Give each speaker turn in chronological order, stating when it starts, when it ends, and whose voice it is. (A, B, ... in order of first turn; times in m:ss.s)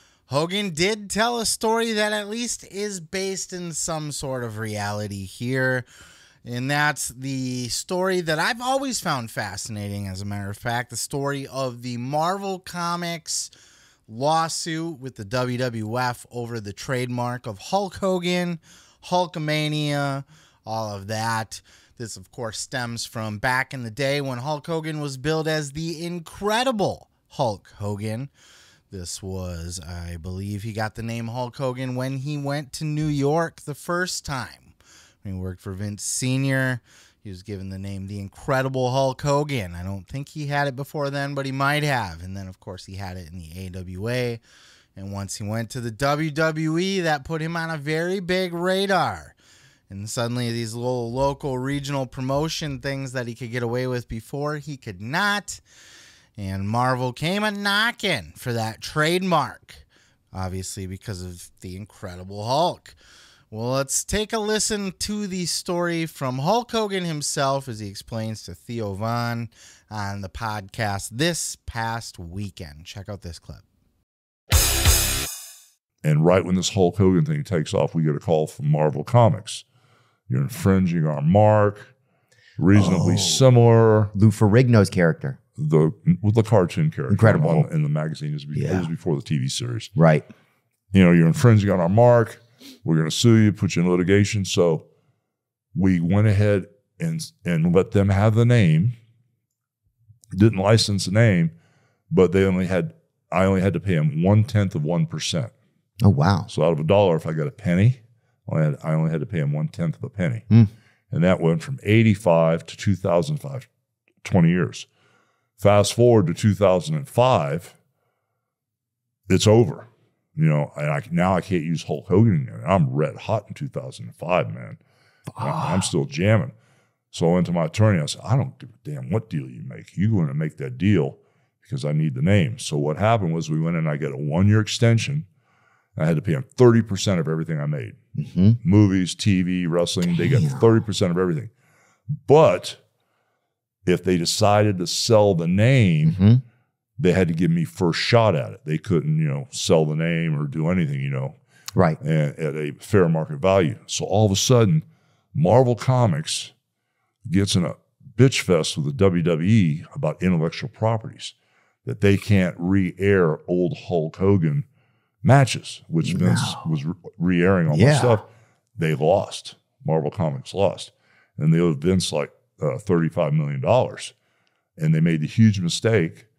0:00.3-0:05.9 A
0:06.4-0:13.5 A
0:14.1-0:28.3 A
0:28.9-0:44.4 A
0:45.0-0:49.4 A
0:49.9-0:55.6 A
0:56.4-1:03.0 A
1:03.5-1:13.6 A
1:16.0-1:19.6 B
1:20.3-1:21.9 B
1:22.6-1:24.1 B
1:22.7-1:23.4 C
1:24.1-1:25.4 C
1:25.6-1:29.9 B
1:27.1-1:27.7 C
1:28.5-1:28.9 C
1:30.0-1:30.3 C
1:30.9-1:34.9 B
1:35.7-1:39.0 B
1:40.3-1:41.5 B
1:42.1-1:45.5 B
1:46.0-1:46.5 C
1:46.5-1:50.5 B
1:51.1-1:53.7 B
1:54.2-1:54.9 B
1:55.6-1:57.8 B
1:59.3-2:04.8 B
2:05.4-2:05.8 C
2:05.4-2:06.5 B
2:07.1-2:15.3 B
2:16.0-2:18.0 B
2:18.2-2:18.6 C
2:18.6-2:21.5 B
2:20.1-2:20.7 C
2:22.2-2:22.8 B
2:23.9-2:26.2 B
2:26.0-2:26.4 C
2:27.0-2:31.4 B
2:32.0-2:36.5 B
2:37.3-2:41.3 B
2:41.8-2:44.7 B
2:45.2-2:48.3 B
2:46.0-2:46.7 C
2:47.7-2:48.2 C
2:48.8-2:54.1 B
2:54.8-2:56.3 B